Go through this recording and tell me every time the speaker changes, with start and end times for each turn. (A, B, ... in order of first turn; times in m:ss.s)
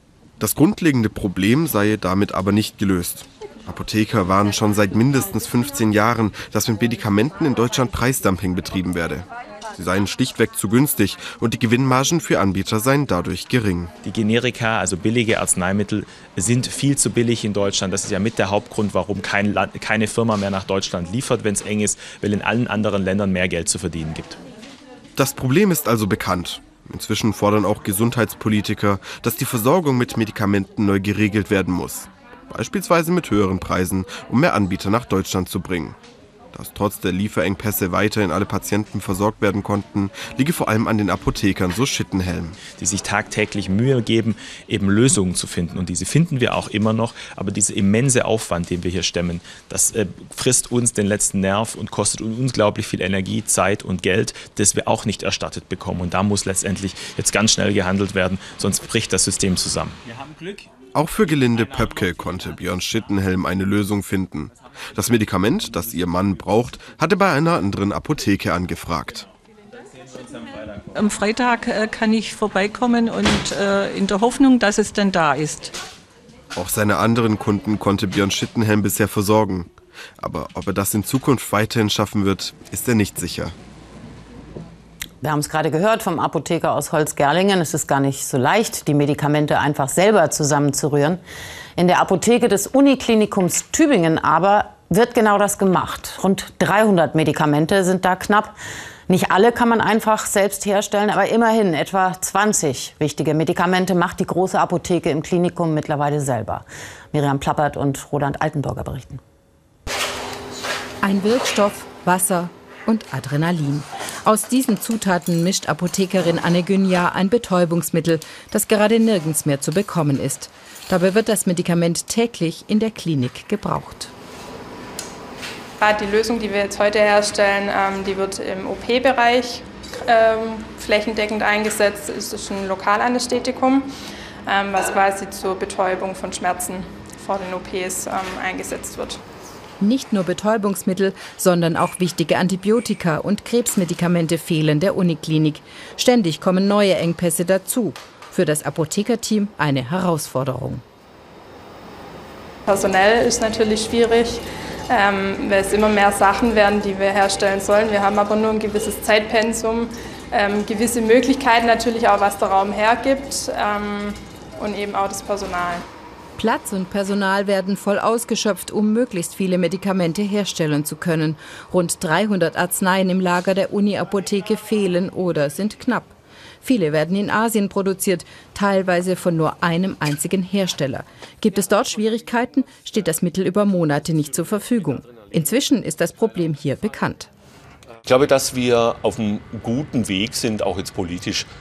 0:00.4-0:13.9 A
0:14.0-0:24.4 B
0:25.2-0:36.0 A
0:36.5-0:42.6 A
0:42.7-1:00.0 B
1:00.9-1:09.2 A
1:10.9-1:15.7 C
1:16.5-1:23.5 A
1:25.2-1:31.2 D
1:31.8-1:38.6 D
1:39.1-1:49.2 D
1:51.0-2:04.1 E
2:05.8-2:13.9 F
2:14.4-2:19.2 F
2:19.8-2:30.8 E
2:32.7-2:45.8 F
2:46.4-3:07.3 E
3:08.1-3:11.4 G